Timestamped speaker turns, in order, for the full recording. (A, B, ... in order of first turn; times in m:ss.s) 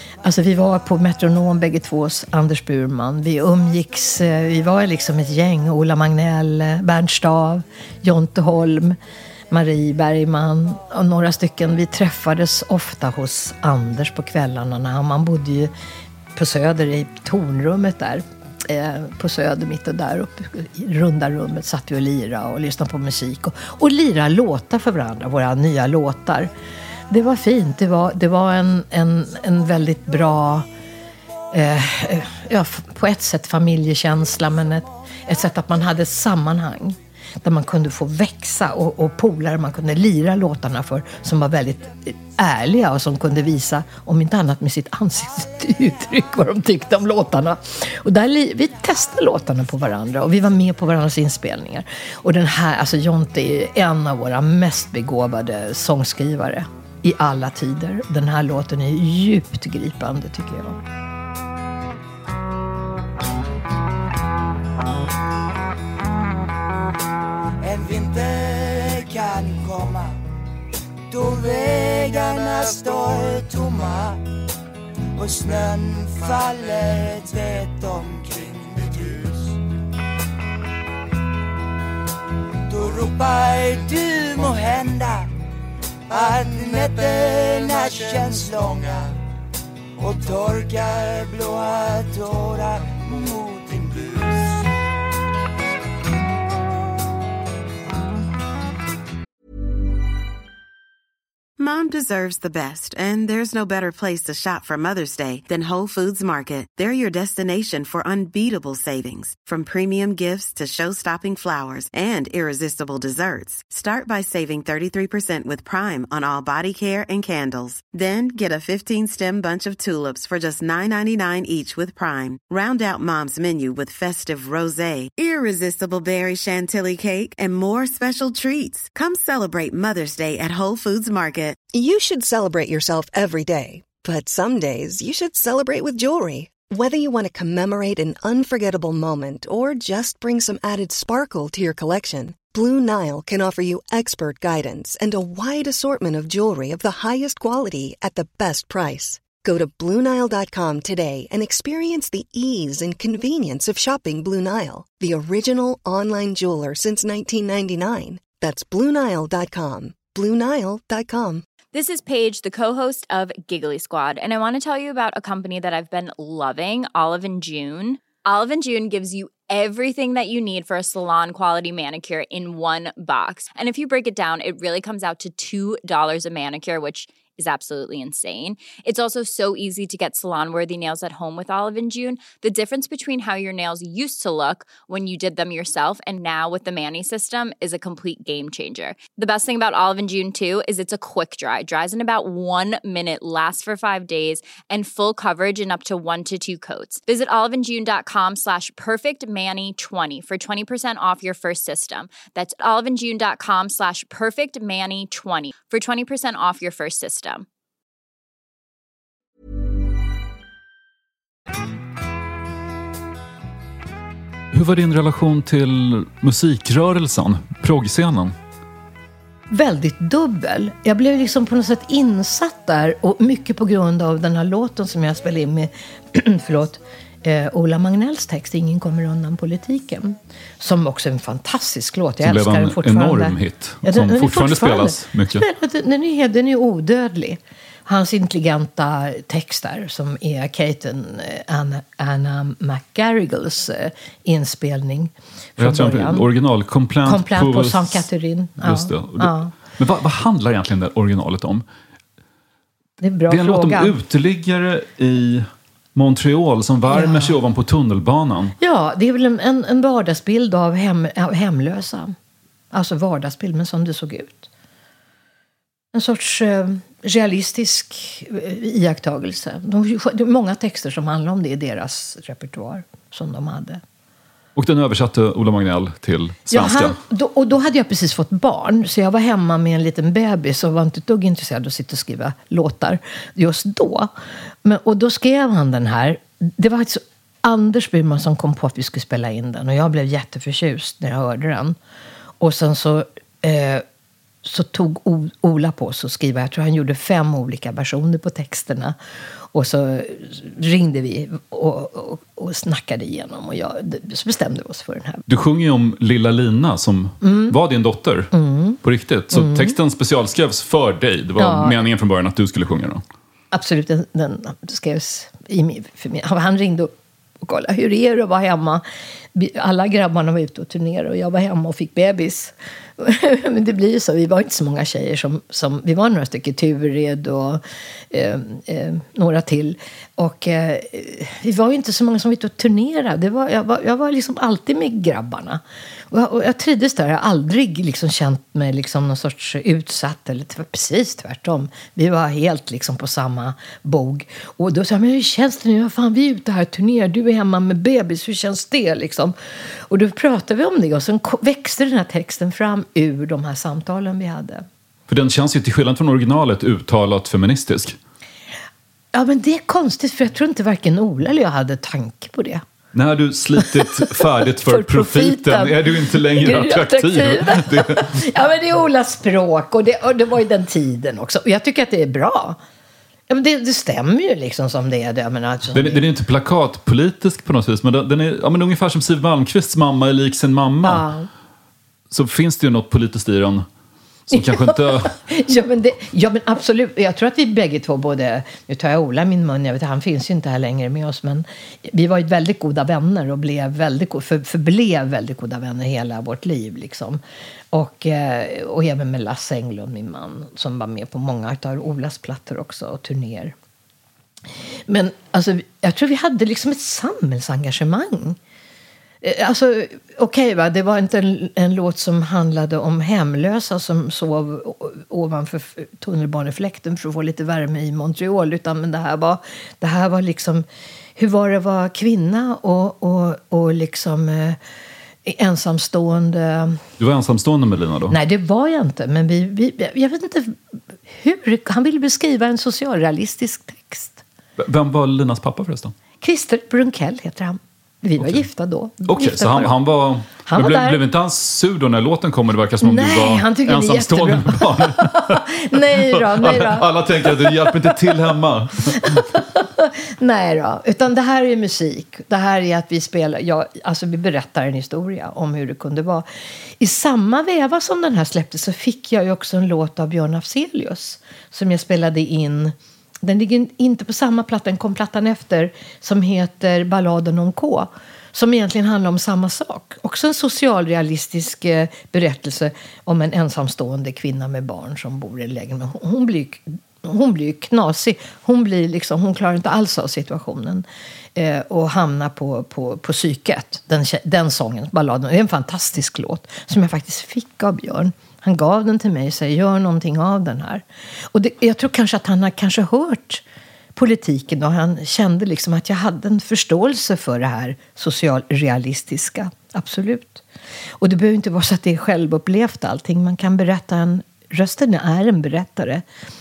0:00.2-0:09.0 A
0:09.5-0:15.7 A
0:16.4-0:26.5 A
0:27.1-0:30.7 A
0:31.5-1:00.8 A
1:07.6-1:10.1 B
1:11.1-1:14.2 B
1:15.2-1:19.5 B
1:22.7-1:25.3 B
1:26.1-1:29.1 B
1:30.0-1:34.5 B
1:41.6-2:11.6 C
2:11.7-2:41.5 D
2:41.7-3:27.5 E
3:34.5-3:38.4 F
3:39.5-4:06.3 A
3:52.2-3:55.4 F
4:05.6-4:08.1 F
4:07.0-4:09.5 A
4:08.6-4:11.6 F
4:13.0-4:14.0 A
4:13.3-4:18.5 F
4:16.9-4:17.4 A
4:18.6-4:22.2 A
4:22.7-4:24.5 A
4:25.9-4:33.8 A
4:34.6-4:37.0 F
4:36.5-4:44.1 A
4:44.6-4:51.8 A
4:52.4-4:53.8 A
4:54.4-4:59.0 A
4:59.5-5:05.2 A
5:05.3-5:08.3 F
5:07.2-5:07.6 A
5:08.3-5:08.8 A
5:08.8-5:13.0 F
5:09.3-5:09.8 A
5:11.4-5:11.8 A
5:13.5-5:16.9 A
5:17.4-5:18.8 A
5:19.4-5:49.4 A
5:49.9-5:54.6 A
5:55.1-5:58.0 F
5:59.1-6:02.6 A
6:02.9-6:08.2 F
6:03.6-6:12.6 A
6:13.3-6:16.1 A
6:15.7-6:21.1 F
6:20.8-6:21.3 A
6:22.1-6:23.7 F
6:24.3-6:25.1 F
6:24.3-6:37.2 A
6:37.7-6:43.5 A
6:44.9-6:48.4 A
6:49.2-7:00.6 A
7:01.2-7:04.6 A
7:05.2-7:06.8 A
7:07.0-7:08.2 F
7:08.1-7:10.6 A
7:11.1-7:14.2 A
7:14.6-7:15.9 F
7:16.2-7:19.8 A
7:18.2-7:18.4 F
7:19.0-7:29.2 F
7:20.5-7:21.0 A
7:22.8-7:28.2 A
7:28.9-7:36.3 A
7:36.8-8:00.8 A
8:01.4-8:13.4 A
8:14.0-8:20.4 A
8:21.0-8:26.0 A